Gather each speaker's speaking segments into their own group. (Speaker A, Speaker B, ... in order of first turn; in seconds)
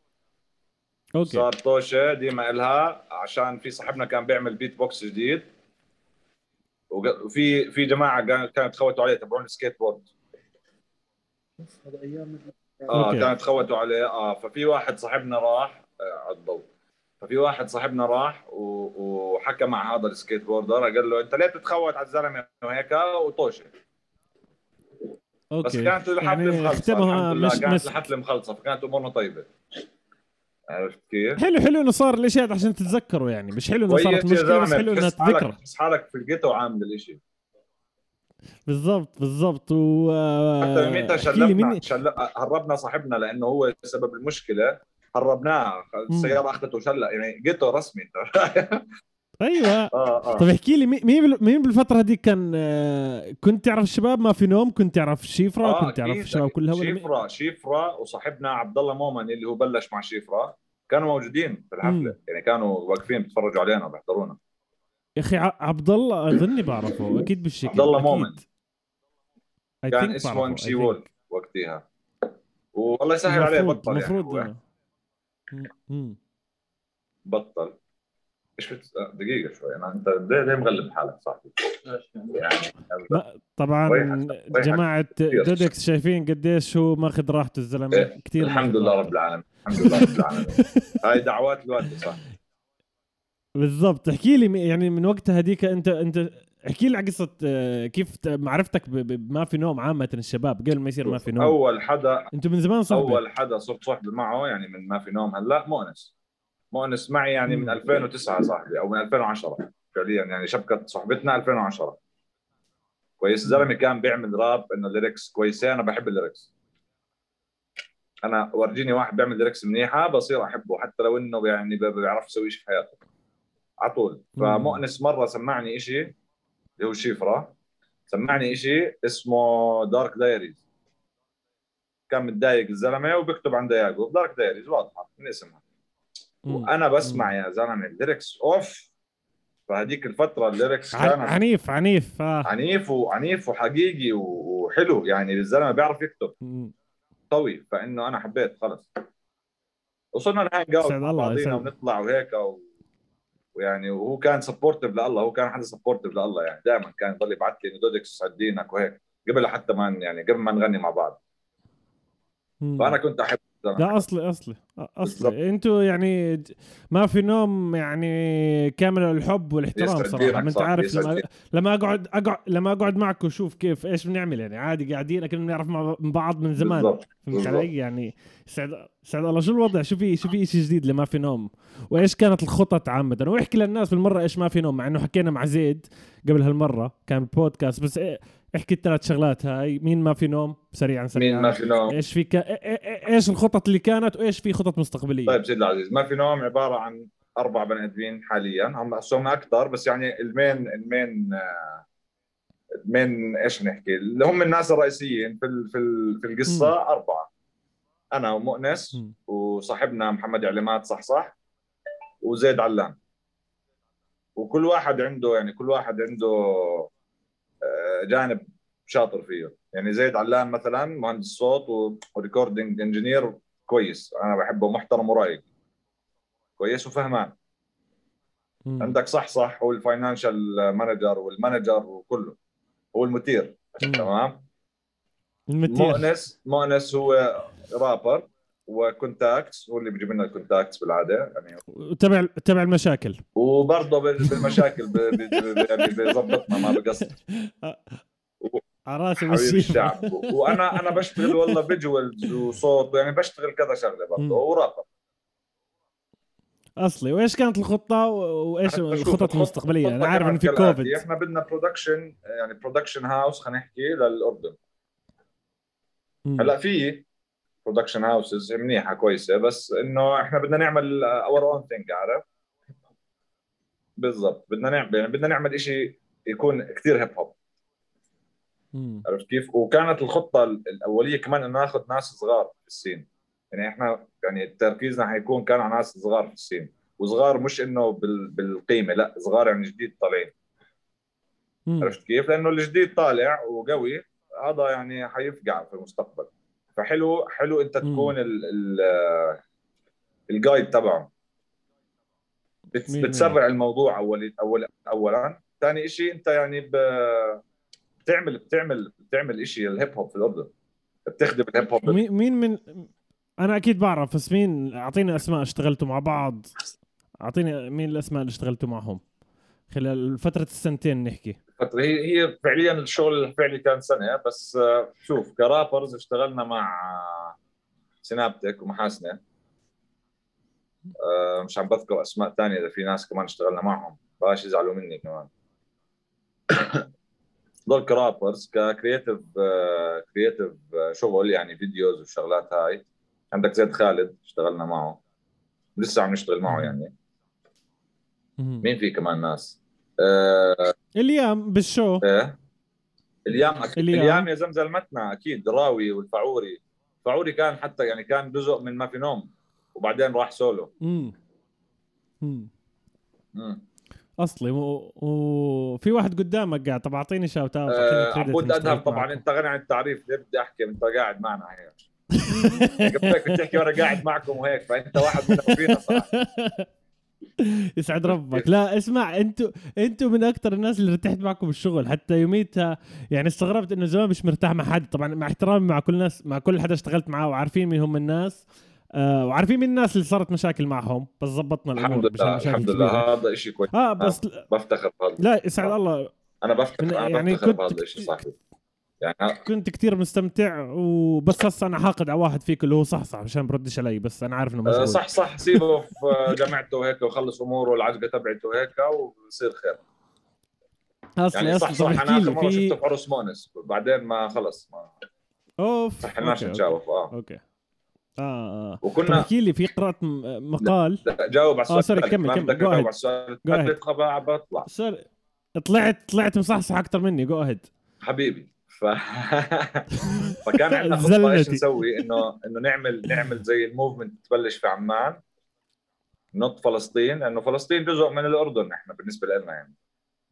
Speaker A: 1.2-1.5, 12.9-13.3, 25.5-28.0, 31.4-35.6, 38.7-41.8, 46.1-46.4, 49.4-57.1, 61.8-62.1, 65.2-68.4, 69.8-71.0, 73.3-74.6, 75.5-76.2, 83.1-89.1, 89.7-91.0, 93.6-101.6, 102.3-103.2, 107.5-107.8, 124.4-124.8, 136.5-137.3, 140.9-142.5, 146.4-146.7, 150.8-151.7, 162.6-163.0, 163.8-195.4, 206.5-206.7, 228.7-229.0, 233.8-234.1, 235.5-236.1, 241.7-243.2, 244.2-246.8, 247.3-247.8, 248.9-251.7, 254.2-254.4, 256.8-261.0, 266.3-266.5, 278.8-279.1, 291.7-291.9, 297.8-298.1, 302.9-303.4, 311.9-312.9, 313.4-316.6, 317.2-319.0, 319.7-321.4, 346.5-346.8, 348.4-348.7, 351.0-352.1, 353.8-354.3, 360.8-361.2, 362.2-362.5, 364.2-369.2, 372.1-373.6, 375.0-376.7, 377.4-393.1, 393.7-394.4, 395.2-396.1, 396.8-398.1, 399.4-405.6, 411.2-412.8, 415.6-417.4, 418.2-421.0, 421.7-422.9, 423.4-423.8, 424.7-425.1, 425.6-427.7, 430.0-432.1
Speaker B: 1.2-5.5, 6.9-10.1, 12.9-16.7, 17.2-23.7, 25.6-29.5, 30.7-31.4, 33.9-37.2, 40.6-48.9, 49.9-50.5, 55.6-64.4, 67.7-68.4, 69.9-71.8, 72.7-74.5, 77.3-77.8, 78.6-81.8, 82.3-83.2, 83.9-85.7, 87.9-92.2, 101.0-102.3, 102.9-106.1, 106.7-112.0, 113.2-116.5, 118.2-123.0, 123.8-126.2, 126.8-127.5, 128.1-130.6, 132.1-135.6, 136.5-138.9, 139.7-141.4, 142.4-146.3, 147.3-148.9, 150.1-152.6, 153.6-161.2, 162.8-164.0, 165.0-165.4, 169.8-171.2, 176.6-177.7, 191.2-192.0, 195.3-201.8, 202.9-207.3, 208.1-211.3, 212.2-213.0, 214.4-216.9, 217.6-225.4, 226.6-227.4, 228.8-232.4, 232.9-234.4, 235.7-241.6, 243.4-247.1, 249.2-254.9, 258.7-264.6, 266.4-267.1, 267.6-272.2, 274.0-277.4, 279.1-290.3, 291.8-299.4, 300.3-301.1, 302.7-307.4, 308.1-310.5, 311.1-312.0, 321.6-327.4, 328.0-329.2, 331.0-335.3, 336.5-336.9, 337.7-345.0, 345.8-346.9, 348.6-350.7, 352.0-352.4, 353.3-360.7, 363.3-363.6, 367.7-371.8, 372.3-376.1, 378.1-378.5, 391.8-395.7, 396.4-398.4, 399.0-399.4, 404.7-409.8, 411.3-414.9, 416.0-417.1, 418.8-419.3, 420.6-424.7, 428.0-429.9, 430.4-435.2, 436.3-439.7
Speaker C: 11.6-13.2, 81.9-82.4